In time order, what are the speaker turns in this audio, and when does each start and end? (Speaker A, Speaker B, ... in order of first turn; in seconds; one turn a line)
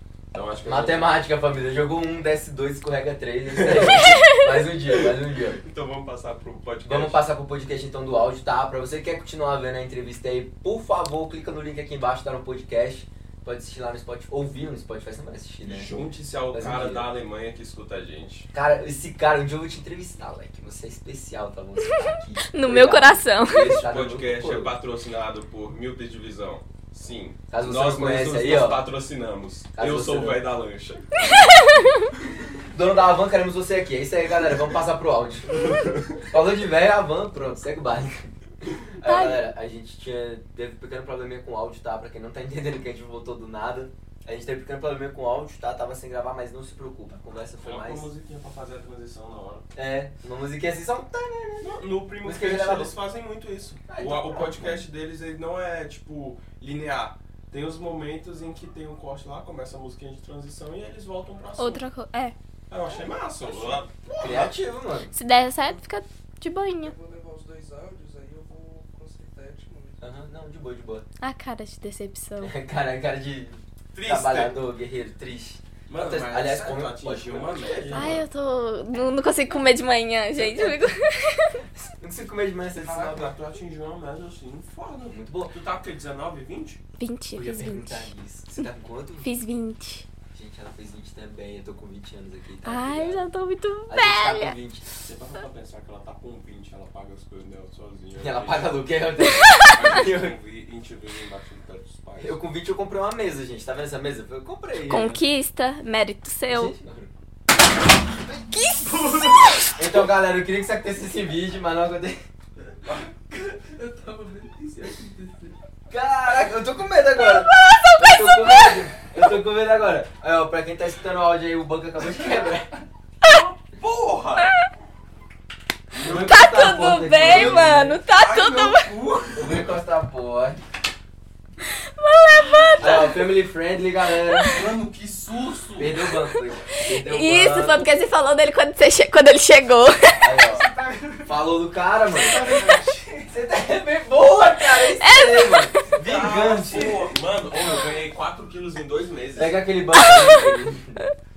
Speaker A: 0.3-1.2
Speaker B: 0.6-5.6
Speaker A: 3.5-4.2
Speaker C: 4.1-4.4
Speaker A: 4.9-7.2
Speaker B: 6.8-17.1
Speaker A: 15.7-18.5
Speaker B: 18.5-24.7
Speaker C: 22.4-23.7
Speaker A: 23.5-31.5
Speaker B: 27.5-28.8
Speaker B: 29.8-30.4
Speaker C: 31.2-32.1
Speaker B: 32.7-48.1
Speaker A: 35.6-36.2
Speaker C: 39.0-39.5
Speaker A: 47.6-49.7
Speaker B: 49.7-52.9
Speaker A: 51.6-61.8
Speaker B: 53.9-54.8
Speaker C: 61.6-62.4
Speaker A: 62.7-64.5
Speaker B: 63.5-65.1
Speaker C: 65.1-66.9
Speaker D: 66.8-70.0
Speaker B: 70.0-71.0
Speaker C: 71.2-72.5
Speaker B: 72.4-78.2
Speaker A: 73.9-74.6
Speaker A: 75.9-78.2
Speaker C: 77.9-81.6
Speaker B: 80.3-80.9
Speaker B: 81.7-83.3
Speaker A: 82.8-86.8
Speaker B: 85.1-85.5
Speaker C: 87.0-88.1
Speaker B: 87.3-89.3
Speaker C: 89.2-90.0
Speaker B: 90.3-93.3
Speaker C: 92.6-94.5
Speaker B: 93.9-95.0
Speaker A: 95.0-98.9
Speaker B: 98.2-100.4
Speaker C: 99.2-99.8
Speaker A: 99.6-102.4
Speaker B: 102.2-105.2
Speaker C: 104.9-106.7
Speaker B: 106.5-107.1
Speaker D: 108.3-109.7
Speaker C: 108.5-109.5
Speaker B: 109.8-112.2
Speaker D: 112.8-115.5
Speaker B: 115.9-122.7
Speaker C: 117.3-118.8
Speaker A: 123.2-124.5
Speaker C: 124.4-124.7
Speaker A: 125.9-126.3
Speaker B: 125.9-128.0
Speaker C: 126.1-128.9
Speaker A: 127.1-129.8
Speaker B: 129.3-130.6
Speaker C: 131.6-133.3
Speaker B: 132.8-134.6
Speaker C: 134.2-134.6
Speaker A: 134.5-136.0
Speaker D: 134.6-134.9
Speaker D: 135.5-135.8
Speaker B: 135.8-137.9
Speaker C: 136.9-140.3
Speaker B: 140.2-140.7
Speaker D: 140.5-141.4
Speaker B: 141.2-142.4
Speaker D: 142.1-143.3
Speaker B: 143.3-147.1
Speaker C: 144.8-145.9
Speaker A: 145.9-149.7
Speaker B: 149.4-151.0
Speaker C: 149.9-151.1